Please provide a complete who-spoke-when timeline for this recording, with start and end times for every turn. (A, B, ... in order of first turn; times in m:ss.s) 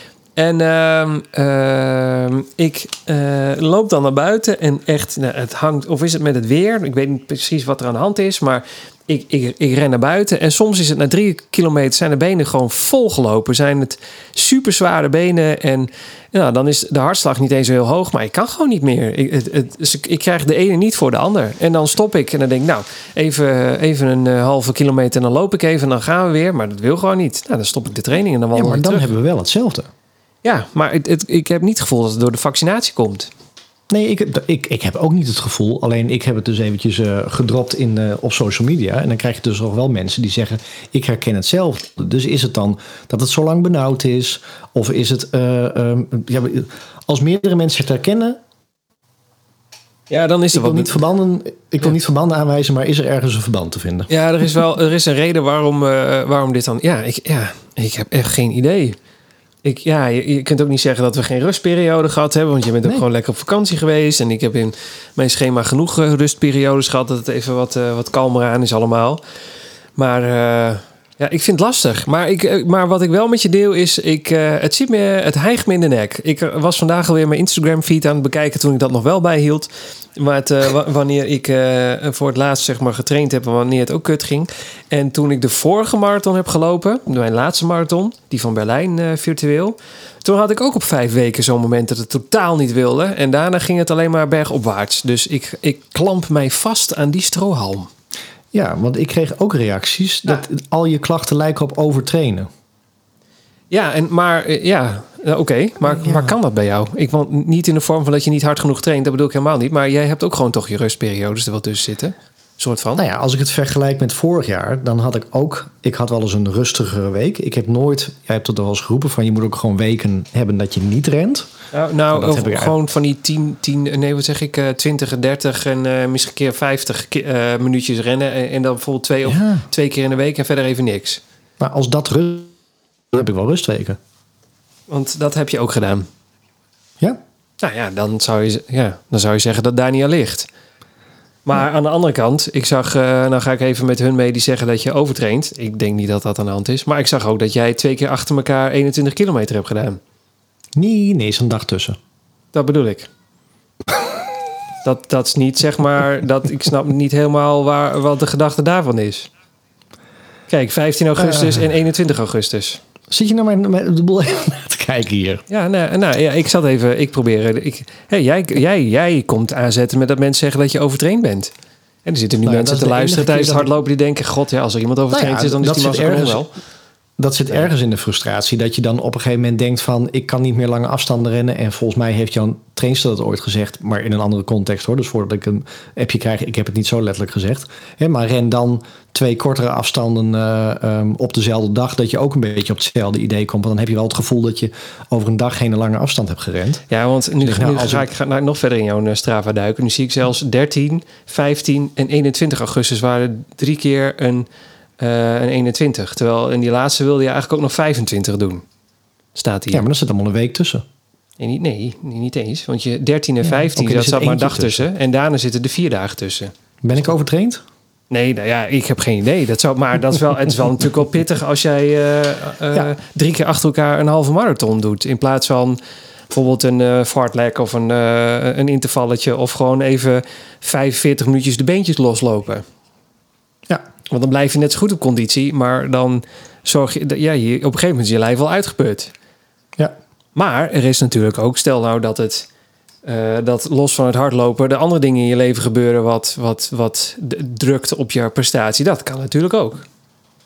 0:00.4-0:29.1 A
0:28.5-0:29.9 B
0:30.4-0:33.3 A
0:33.9-0:48.4 B
0:50.1-0:51.0 A
0:50.5-0:54.1 B
0:54.1-0:59.0 A
0:59.6-1:09.2 A
1:10.0-1:37.9 A
1:38.5-1:42.5 B
1:43.7-1:53.0 A
1:45.9-1:46.4 B
1:53.0-2:01.5 B
2:01.7-2:11.2 A
2:02.1-2:02.8 B
2:09.2-2:09.7 B
2:11.6-2:12.5 B
2:13.1-2:14.0 B
2:14.9-2:16.1 A
2:17.6-2:20.5 A
2:21.4-2:30.0 A
2:30.8-2:32.0 B
2:32.5-2:33.1 A
2:34.8-2:39.3 A
2:40.5-2:42.8 A
2:41.2-2:41.7 B
2:43.1-2:45.4 B
2:45.5-2:51.5 A
2:52.0-2:56.5 A
2:52.4-2:53.7 B
2:55.1-2:56.5 B
2:57.2-3:16.8 B
3:16.9-3:24.5 A
3:17.4-3:18.1 B
3:25.0-3:28.6 A
3:29.4-3:29.9 A
3:29.7-3:30.8 B
3:31.4-3:37.1 A
3:33.4-3:34.9 B
3:36.8-3:37.6 B
3:38.1-3:45.8 A
3:46.3-3:52.6 A
3:54.1-3:59.1 A
4:00.4-4:02.5 A
4:03.0-4:09.8 A